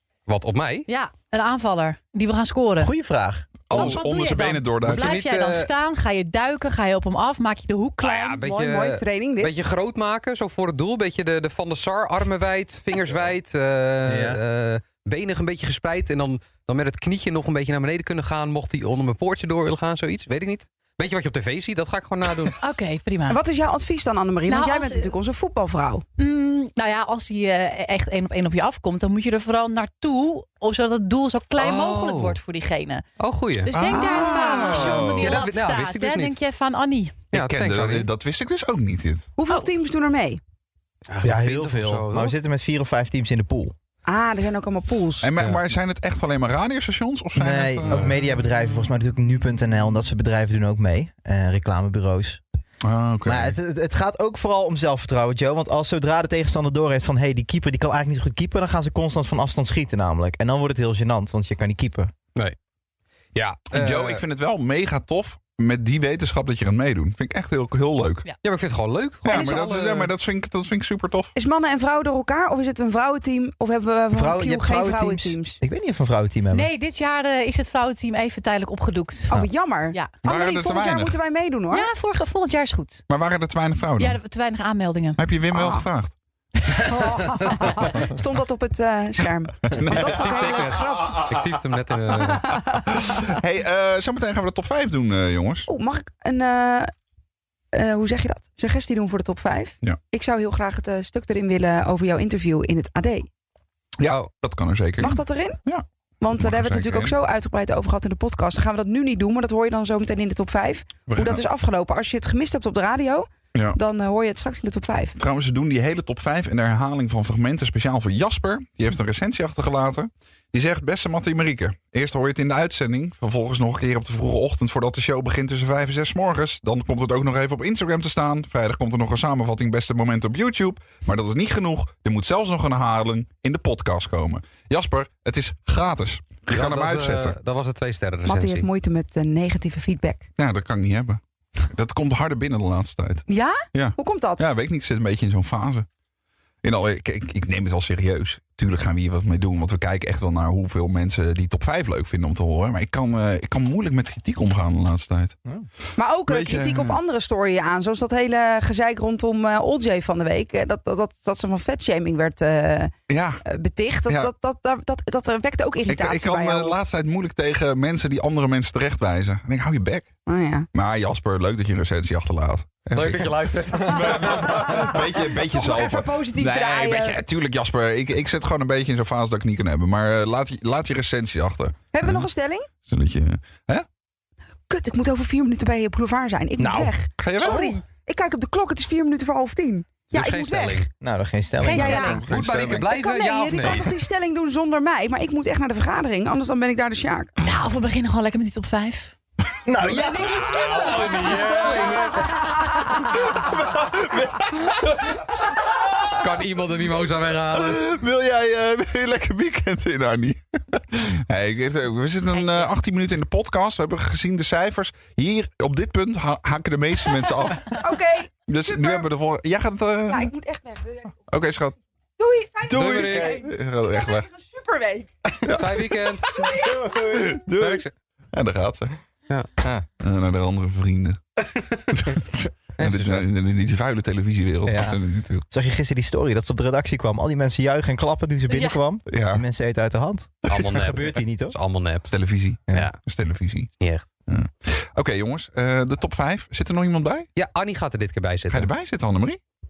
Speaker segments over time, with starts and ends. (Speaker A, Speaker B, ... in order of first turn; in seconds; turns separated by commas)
Speaker A: 0.3-0.9, Speaker B: 0.9-2.9, Speaker C: 2.8-3.5, Speaker D: 3.7-5.1, Speaker B: 3.7-8.5, Speaker A: 4.8-5.7, Speaker A: 8.0-22.6, Speaker E: 8.3-9.6, Speaker C: 14.1-14.4, Speaker B: 22.6-23.4, Speaker E: 23.3-26.1, Speaker B: 24.5-25.1, Speaker B: 26.2-33.0, Speaker A: 31.6-32.4, Speaker A: 33.2-33.7, Speaker B: 33.6-37.2, Speaker D: 33.7-35.4, Speaker E: 33.9-34.9, Speaker A: 34.9-36.4, Speaker A: 37.3-38.1, Speaker D: 37.3-39.3, Speaker E: 39.4-40.4, Speaker A: 41.1-42.4, Speaker C: 41.2-43.7, Speaker E: 44.1-45.3, Speaker D: 45.2-48.1, Speaker C: 47.4-52.4, Speaker D: 52.8-53.6, Speaker C: 53.2-62.1, Speaker A: 63.4-64.2, Speaker D: 63.7-68.2, Speaker A: 68.4-70.1, Speaker D: 69.2-71.3, Speaker E: 69.3-69.7, Speaker E: 71.3-75.6, Speaker C: 74.1-76.7, Speaker B: 76.5-80.2, Speaker E: 79.3-81.9, Speaker D: 80.2-81.2, Speaker B: 81.7-83.0, Speaker D: 83.1-84.2, Speaker B: 84.0-85.2, Speaker D: 85.2-86.1, Speaker E: 85.5-85.8, Speaker E: 86.8-91.4, Speaker D: 89.7-90.4, Speaker A: 89.8-92.5, Speaker E: 92.3-92.6, Speaker D: 92.9-95.7, Speaker E: 95.7-96.9, Speaker E: 97.7-103.3, Speaker D: 104.0-105.8, Speaker E: 105.0-105.6, Speaker E: 106.2-115.2, Speaker D: 106.4-107.1, Speaker D: 111.1-111.4, Speaker D: 115.2-137.4, Speaker A: 136.5-138.7, Speaker E: 138.3-140.3, Speaker D: 140.4-145.9, Speaker E: 143.3-144.4, Speaker D: 146.6-155.4, Speaker E: 156.0-162.9, Speaker D: 156.3-157.0, Speaker D: 163.1-163.4, Speaker E: 163.4-166.8, Speaker D: 165.9-170.1, Speaker E: 170.3-170.7, Speaker D: 170.7-182.3, Speaker A: 172.9-174.6, Speaker E: 174.4-177.2, Speaker E: 181.9-182.7, Speaker D: 182.8-183.9, Speaker E: 184.7-190.9, Speaker C: 186.6-186.9, Speaker D: 187.2-187.8, Speaker A: 190.1-190.9, Speaker C: 191.0-192.2, Speaker B: 191.6-192.2, Speaker E: 191.7-197.3, Speaker D: 192.0-192.9, Speaker A: 192.3-194.0, Speaker B: 197.4-199.1, Speaker C: 199.7-202.4, Speaker E: 199.8-202.1, Speaker A: 200.2-202.2, Speaker D: 203.4-204.5, Speaker A: 206.2-207.8, Speaker D: 207.6-217.8, Speaker E: 217.7-219.1, Speaker D: 218.5-220.3, Speaker E: 220.1-221.2, Speaker D: 221.3-221.8, Speaker E: 222.2-225.1, Speaker D: 222.7-224.3, Speaker A: 222.7-223.4, Speaker D: 225.4-225.8, Speaker A: 225.5-226.4, Speaker E: 226.4-226.8, Speaker C: 226.7-227.2, Speaker D: 227.1-228.9, Speaker A: 227.6-227.9, Speaker C: 229.6-229.9, Speaker D: 230.0-231.2, Speaker D: 231.9-235.4, Speaker A: 232.8-233.3, Speaker C: 234.7-235.0, Speaker C: 235.5-241.6, Speaker B: 238.5-238.8, Speaker D: 239.1-239.4, Speaker A: 240.5-242.1, Speaker D: 242.1-243.7, Speaker A: 242.7-243.0, Speaker D: 244.3-247.3, Speaker A: 247.4-248.7, Speaker D: 248.5-249.4